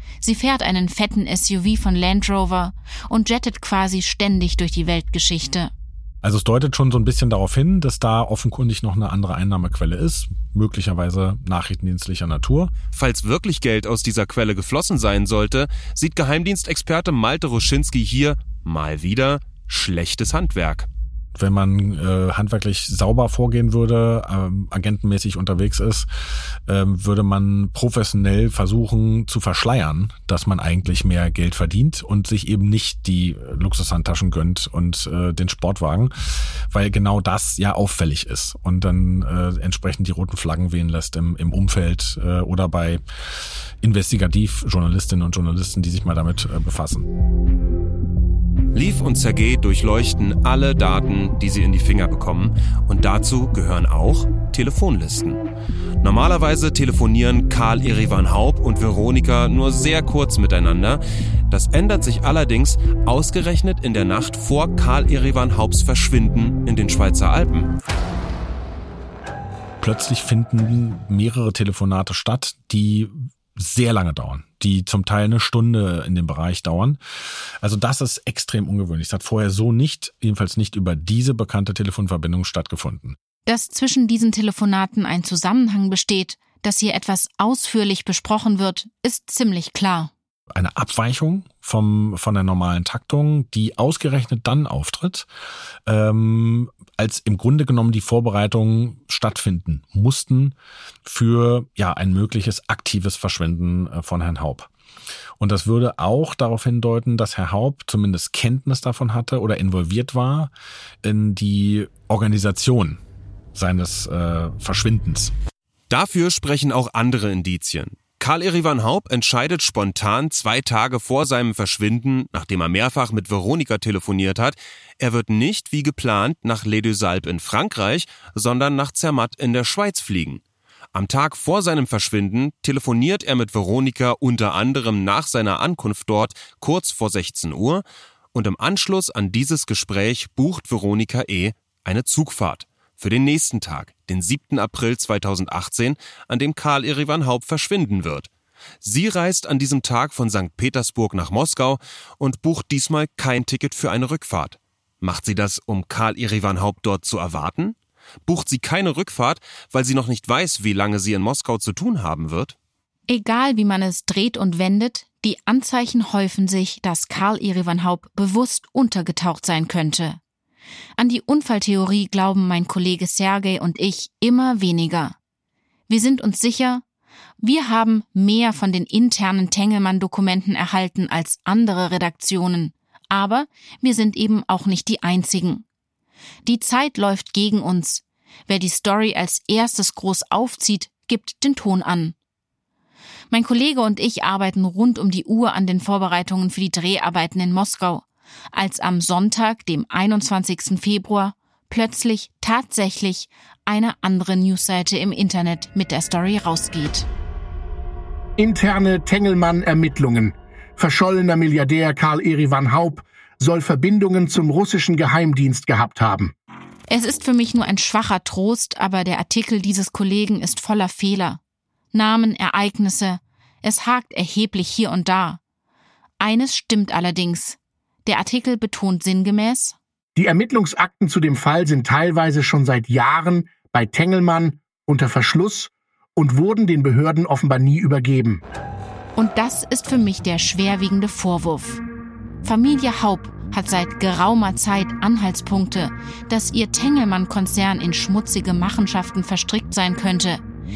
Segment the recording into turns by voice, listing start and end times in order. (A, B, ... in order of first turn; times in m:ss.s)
0:00.2-0:05.7 A
0:06.2-0:12.7 B
0:12.9-0:20.9 C
0:21.3-0:26.1 B
0:26.6-0:43.0 B
0:43.8-0:47.1 B
0:48.7-0:55.4 C
0:56.0-1:07.7 C
1:09.8-1:17.0 B
1:17.6-1:23.2 B
1:23.4-1:30.1 A
1:30.5-1:35.3 B
1:35.8-1:44.7 B
1:45.4-1:50.5 B
1:51.0-1:53.0 B
1:53.5-1:55.3 B
1:55.9-2:10.4 C
2:10.9-2:28.3 C
2:28.8-2:42.6 C
2:43.1-2:50.2 A
2:51.0-2:55.1 A
2:55.9-2:56.8 A
2:57.4-3:05.6 A
3:06.4-3:12.1 A
3:13.3-3:27.1 A
3:28.4-3:36.3 D
3:36.9-3:41.4 A
3:41.9-3:45.4 A
3:46.2-3:49.8 A
3:50.2-3:58.4 D
3:59.2-4:01.8 A
4:02.4-4:10.4 A